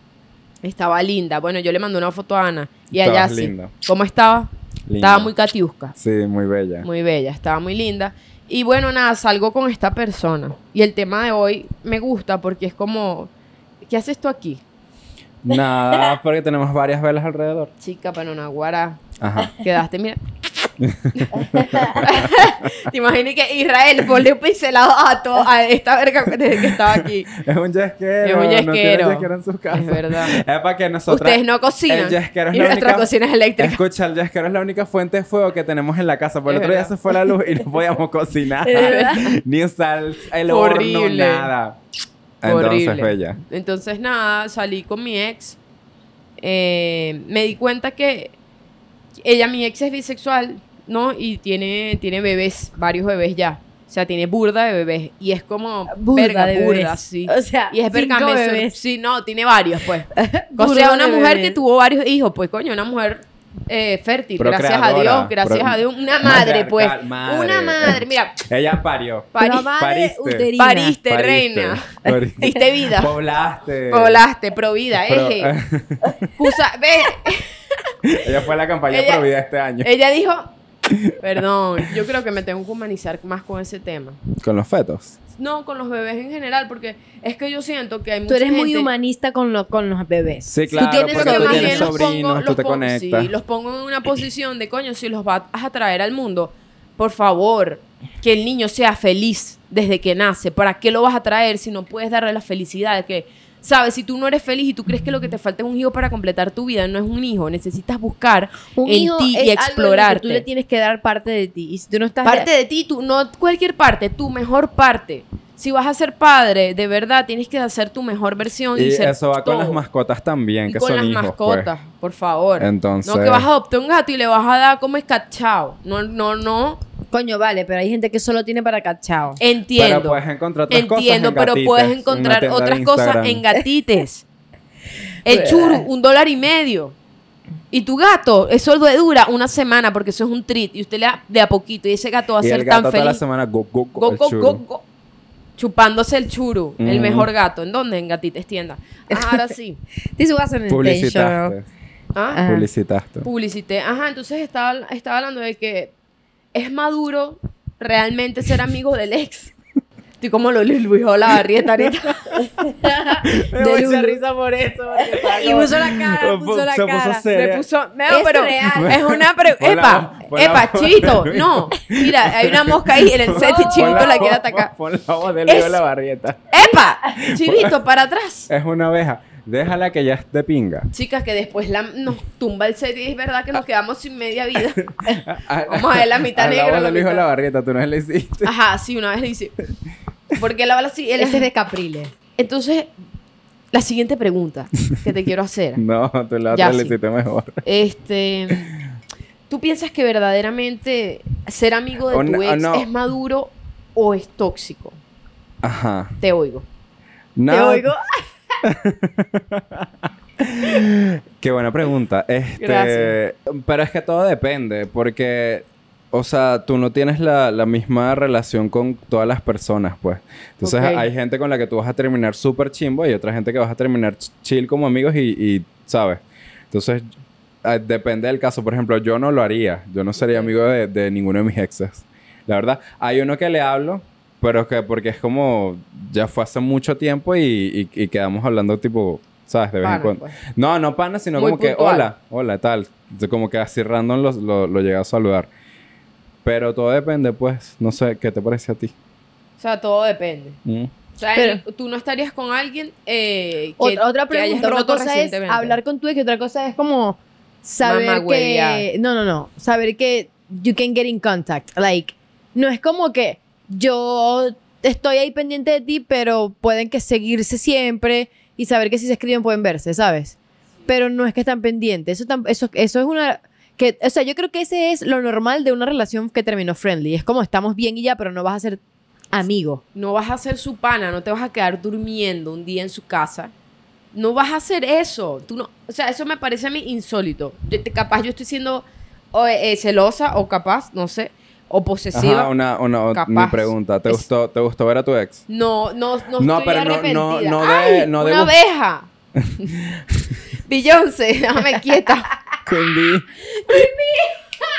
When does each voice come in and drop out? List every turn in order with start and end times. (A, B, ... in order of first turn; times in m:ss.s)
0:00.6-0:06.0 A
0:02.9-0:03.7 B
0:04.9-0:05.3 B
0:06.0-0:06.9 B
0:06.8-0:13.3 A
0:13.9-0:14.6 A
0:15.4-0:17.7 B
0:17.8-0:20.2 A
0:19.2-0:19.6 B
0:20.8-0:22.7 B
0:21.2-0:27.3 A
0:21.5-0:21.9 C
0:26.6-0:41.8 B
0:28.2-0:30.4 A
0:31.1-0:33.8 A
0:36.5-0:36.9 A
0:38.6-0:39.3 C
0:38.8-0:39.3 A
0:40.4-0:41.5 A
0:42.4-0:43.4 B
0:42.4-0:45.6 A
0:46.4-0:48.4 A
0:49.2-1:08.4 A
0:55.9-0:58.8 C
1:00.1-1:01.6 C
1:04.4-1:10.5 B
1:09.3-1:09.7 A
1:09.4-1:11.0 C
1:10.6-1:13.2 A
1:11.1-1:14.2 B
1:12.1-1:12.6 C
1:13.9-1:15.5 A
1:15.1-1:16.3 B
1:16.4-1:18.1 A
1:18.2-1:19.9 B
1:18.9-1:19.3 A
1:19.8-1:20.5 A
1:20.9-1:21.2 B
1:21.2-1:24.2 A
1:24.4-1:25.2 B
1:25.4-1:28.9 A
1:28.3-1:32.0 C
1:30.4-1:33.3 B
1:30.7-1:50.4 A
1:48.8-1:52.5 C
1:52.2-1:59.8 A
1:58.8-2:01.7 B
2:00.7-2:06.8 A
2:02.6-2:03.5 B
2:07.1-2:09.4 C
2:09.4-2:14.2 A
2:09.8-2:13.4 B
2:15.2-2:17.0 A
2:15.3-2:15.8 C
2:17.7-2:23.2 A
2:22.4-2:24.6 B
2:24.0-2:24.8 A
2:25.6-2:29.8 A
2:26.8-2:27.3 B
2:29.1-2:29.5 C
2:30.2-2:31.6 C
2:30.7-2:31.7 B
2:32.2-2:32.4 A
2:32.3-2:32.7 C
2:32.5-2:33.3 B
2:33.2-2:35.9 A
2:36.5-2:39.5 A
2:40.2-2:42.5 A
2:41.9-2:42.1 B
2:42.6-2:44.2 C
2:43.2-2:47.6 B
2:45.0-2:47.2 C
2:47.3-2:54.7 A
2:48.1-2:49.0 C
2:48.7-2:56.5 B
2:53.3-2:54.3 C
2:55.5-2:55.8 A
2:56.5-2:58.5 A
2:57.2-2:57.8 B
2:58.5-3:00.9 B
3:00.9-3:04.9 A
3:05.1-3:08.5 B
3:05.7-3:07.3 A
3:08.4-3:09.6 A
3:10.3-3:11.5 A
3:11.2-3:12.1 C
3:12.4-3:12.9 A
3:13.7-3:15.8 A
3:15.8-3:17.6 B
3:16.5-3:17.0 A
3:17.6-3:18.7 A
3:19.5-3:25.0 A
3:22.1-3:22.9 B
3:25.6-3:26.2 B
3:26.2-3:26.7 A
3:27.4-3:27.9 B
3:27.5-3:28.2 C
3:28.6-3:47.1 B
3:32.6-3:33.2 A
3:40.6-3:41.1 A
3:47.6-4:05.5 B
3:50.2-3:50.5 A
3:59.8-4:00.4 A
4:01.4-4:02.1 A
4:06.4-4:08.9 B
4:09.6-4:10.6 A
4:10.7-4:10.9 B
4:11.2-4:15.8 A
4:11.4-4:11.6 C
4:13.8-4:30.4 C
4:17.8-4:18.9 A
4:30.9-4:38.8 C
4:39.3-4:39.8 C
4:40.0-4:43.5 A
4:44.1-4:52.5 A
4:52.1-4:55.4 B
4:53.1-4:54.2 A
4:55.5-4:59.1 A
4:56.4-4:58.5 B
4:59.4-5:00.3 B
5:00.6-5:02.4 A
5:02.7-5:03.3 B
5:03.7-5:04.3 A